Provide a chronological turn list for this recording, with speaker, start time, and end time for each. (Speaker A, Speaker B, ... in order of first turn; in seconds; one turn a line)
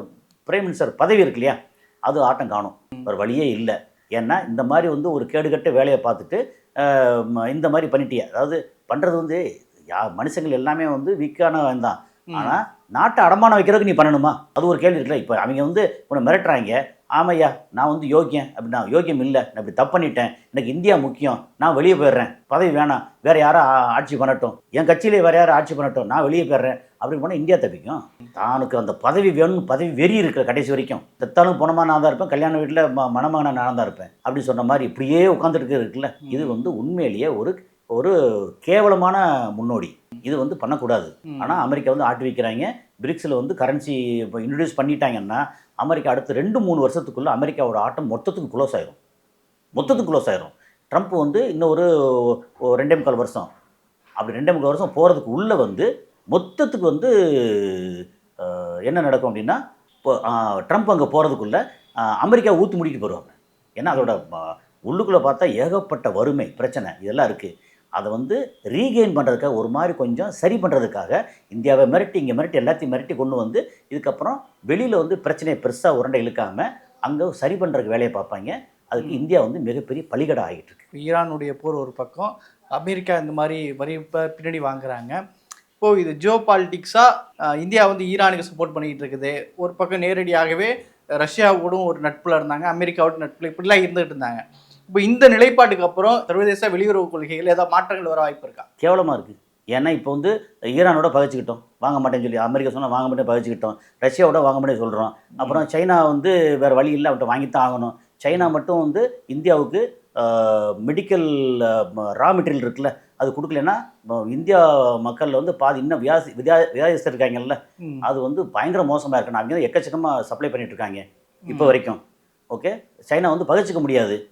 Speaker A: 0.5-9.4
Speaker A: 9.9-49.0
Speaker B: 12.3-12.6
Speaker B: 36.3-36.6
Speaker B: 41.3-41.7
Speaker A: 49.8-53.5
Speaker B: 49.8-50.0
Speaker A: 54.2-80.8
Speaker B: 80.9-85.2
Speaker B: 85.8-98.7
Speaker A: 98.8-122.0
Speaker B: 121.5-121.8
Speaker A: 122.5-124.2